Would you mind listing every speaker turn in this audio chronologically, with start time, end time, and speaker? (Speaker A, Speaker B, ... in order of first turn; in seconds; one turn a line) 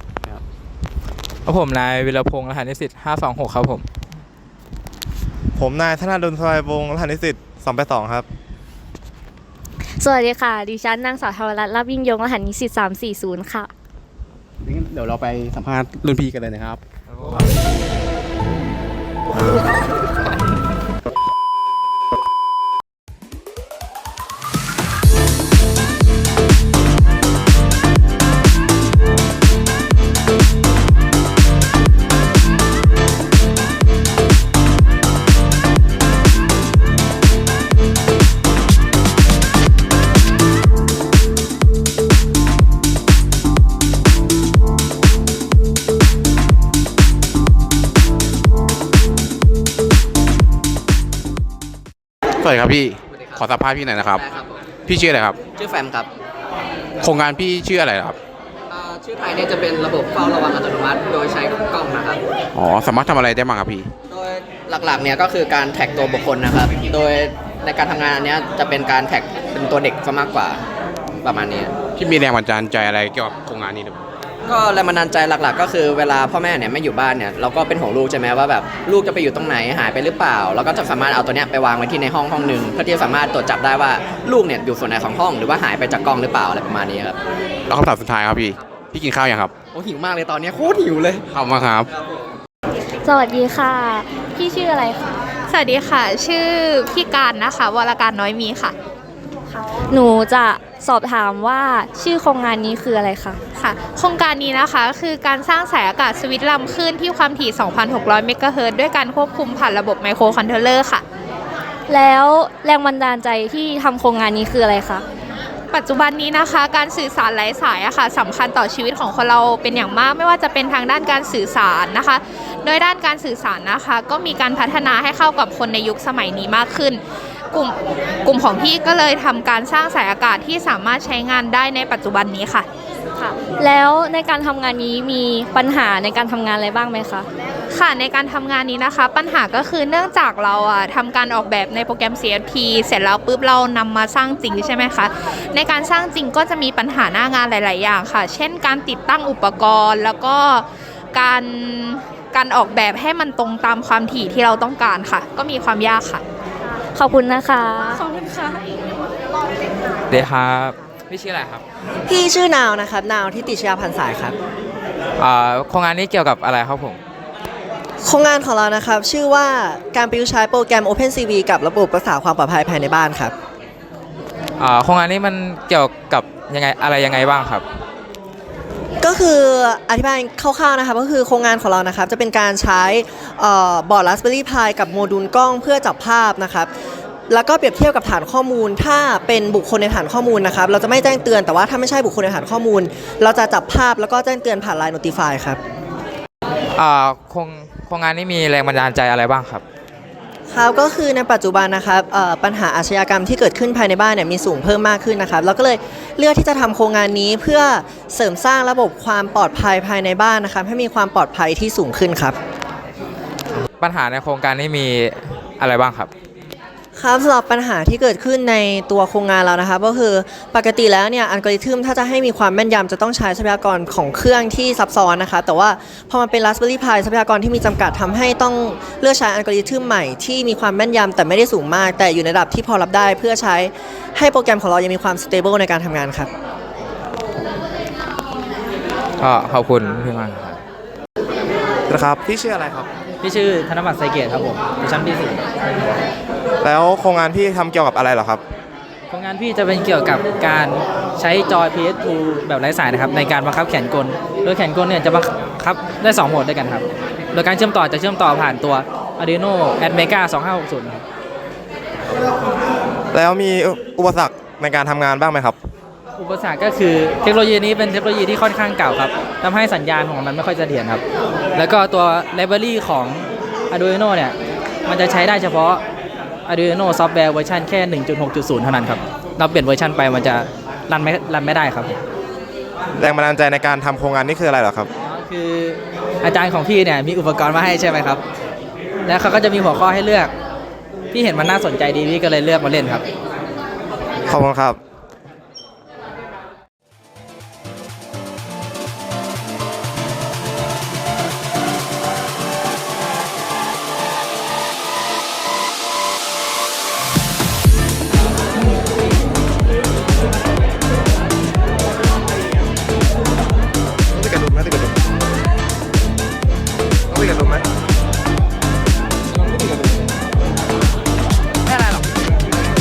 Speaker A: 1.5-3.9
Speaker B: 5.6-8.3
Speaker C: 10.0-13.7
Speaker D: 14.6-16.8
Speaker D: 52.4-54.2
Speaker E: 53.1-53.4
Speaker E: 54.1-54.6
Speaker D: 54.9-55.4
Speaker E: 55.6-56.1
Speaker D: 57.0-58.2
Speaker E: 58.7-62.2
Speaker D: 62.5-63.9
Speaker E: 64.1-70.6
Speaker E: 71.2-71.8
Speaker D: 72.0-74.0
Speaker E: 74.5-87.2
Speaker D: 87.7-89.5
Speaker E: 89.7-91.3
Speaker D: 91.3-91.9
Speaker C: 93.0-95.1
Speaker F: 95.5-98.8
Speaker C: 99.8-103.4
Speaker F: 103.6-111.0
Speaker C: 111.9-115.0
Speaker F: 115.7-127.0
Speaker F: 127.5-132.7
Speaker C: 133.2-137.3
Speaker F: 137.7-156.2
Speaker C: 156.9-158.6
Speaker A: 160.1-161.6
Speaker G: 162.1-164.3
Speaker A: 165.2-167.0
Speaker G: 168.0-173.3
Speaker A: 174.6-177.7
Speaker G: 179.0-186.7
Speaker G: 187.3-195.6
Speaker A: 196.8-199.6
Speaker G: 200.5-212.4
Speaker A: 213.8-216.1
Speaker G: 217.0-236.3
Speaker A: 239.2-240.6
Speaker B: 241.9-242.9
Speaker H: 243.2-245.4
Speaker B: 246.6-248.4
Speaker H: 249.1-261.1
Speaker B: 263.1-265.6
Speaker H: 266.2-271.0
Speaker H: 271.6-275.8
Speaker H: 276.5-282.0
Speaker B: 283.0-284.9
Speaker H: 285.0-288.2
Speaker H: 289.1-290.3
Speaker H: 291.1-293.0
Speaker B: 294.3-294.8
Speaker B: 314.3-314.9
Speaker B: 317.2-317.6